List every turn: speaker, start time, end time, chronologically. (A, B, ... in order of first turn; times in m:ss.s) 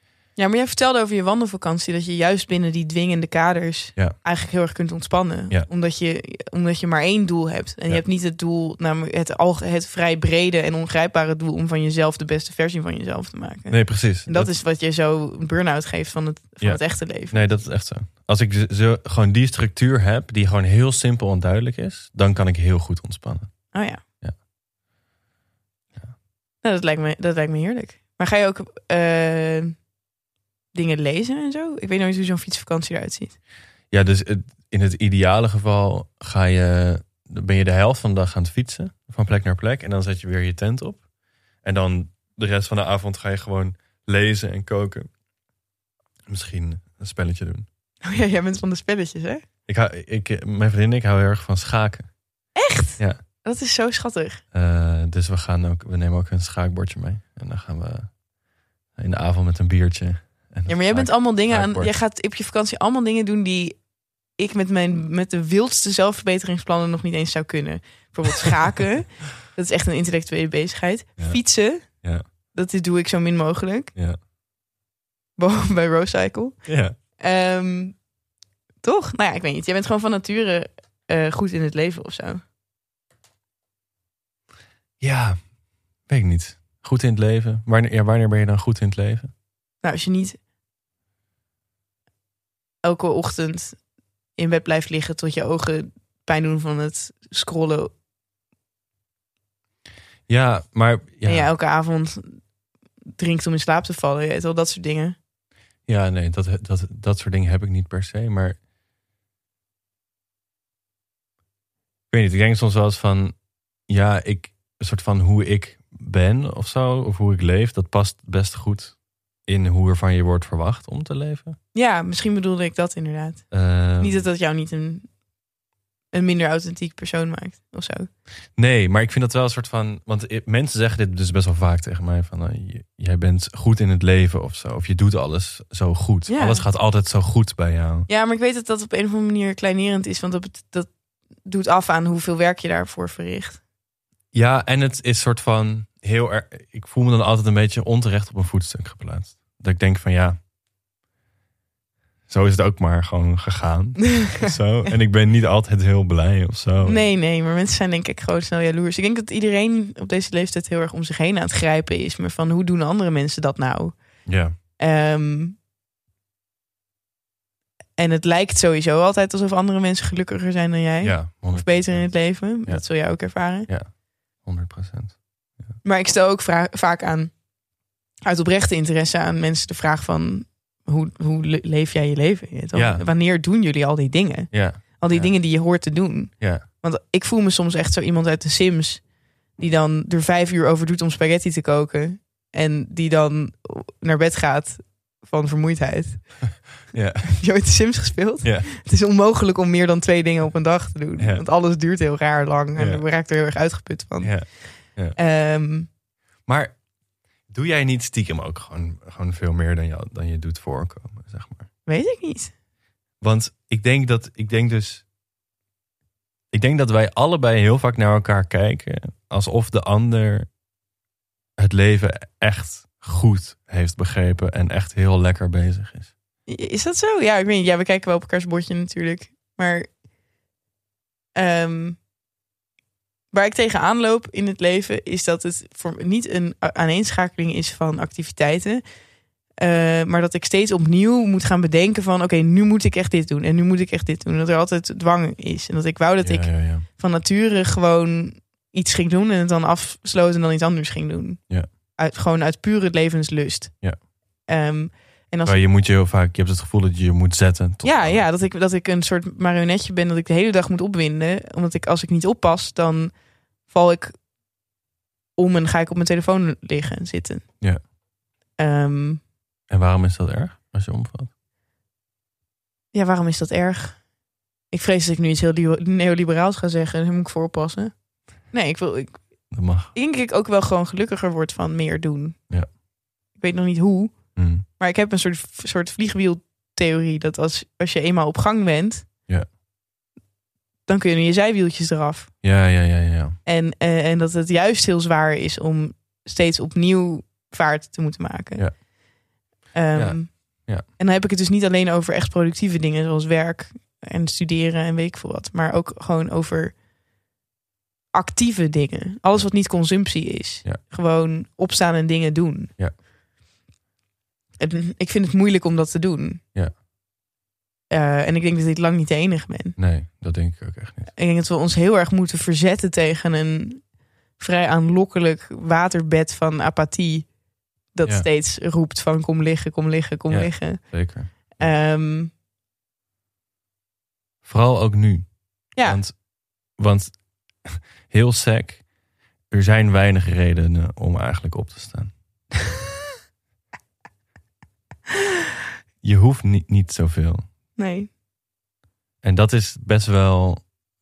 0:00.4-0:17.6 A
0:13.7-0:14.5 B
0:16.6-0:24.4 B
0:23.7-0:24.0 A
0:26.6-0:29.8 A
0:30.7-0:33.4 A
0:33.9-0:41.0 B
0:41.6-0:45.1 B
0:46.3-0:47.7 B
0:48.0-0:49.4 A
0:49.7-0:52.2 B
0:52.6-0:54.4 A
0:54.5-0:58.1 B
0:59.0-1:01.9 B
1:00.7-1:03.8 A
1:04.4-1:13.9 A
1:11.2-1:12.2 B
1:15.4-1:18.0 A
1:16.7-1:17.0 B
1:18.8-1:22.4 A
1:25.0-1:25.5 B
1:26.1-1:29.3 B
1:29.8-1:30.4 A
1:32.8-1:33.8 A
1:34.4-1:37.9 A
1:40.3-1:41.5 B
1:41.3-1:42.4 A
1:43.2-1:45.2 A
1:45.9-1:48.6 B
1:52.1-1:53.4 B
1:53.9-2:01.6 B
2:01.7-2:05.1 A
2:03.5-2:04.2 B
2:06.1-2:08.1 A
2:08.6-2:18.1 B
2:16.3-2:16.7 A
2:18.1-2:20.9 A
2:21.4-2:23.6 A
2:24.3-2:30.4 B
2:32.3-2:37.0 B
2:34.2-2:34.5 A
2:36.8-2:45.6 A
2:44.3-2:44.6 B
2:48.0-2:53.7 A
2:51.0-2:55.7 B
2:55.8-2:57.4 A
2:58.2-3:16.7 A
3:02.7-3:03.0 B
3:04.5-3:05.4 B
3:06.4-3:06.6 B
3:16.9-3:17.4 B
3:17.3-3:25.9 A
3:18.4-3:18.7 B
3:21.2-3:21.4 B
3:22.8-3:23.0 B
3:24.2-3:25.2 B
3:26.5-3:26.8 B
3:27.5-3:31.7 B
3:31.9-3:32.5 A
3:33.2-3:35.0 B
3:36.5-3:40.5 B
3:41.6-3:46.1 B
3:46.5-3:49.9 A
3:51.4-3:52.0 A
3:53.3-3:58.8 A
3:59.6-4:13.8 A
4:06.2-4:06.8 B
4:14.5-4:15.6 A
4:15.4-4:18.3 B
4:17.8-4:23.2 A
4:23.7-4:24.2 A
4:25.4-4:27.5 A
4:28.6-4:29.2 A
4:29.7-4:31.3 B
4:32.9-4:34.1 A
4:34.7-4:38.0 A
4:38.5-4:42.4 A
4:39.5-4:39.9 B
4:43.4-4:49.1 A
4:44.4-4:44.6 B
4:50.9-4:52.3 A
4:52.4-4:53.4 B
4:53.4-4:58.9 A
4:59.7-5:06.8 A
4:59.9-5:00.8 B
5:08.1-5:12.7 A
5:14.6-5:16.4 A
5:17.9-5:19.8 A
5:19.8-5:21.1 B
5:21.1-5:27.3 A
5:27.9-5:32.3 A
5:30.3-5:31.7 B
5:34.4-5:36.2 B
5:35.8-5:36.0 A
5:36.7-5:38.8 B
5:39.5-5:42.1 B
5:46.0-5:47.4 B
5:47.8-5:48.1 A
5:49.2-5:50.6 B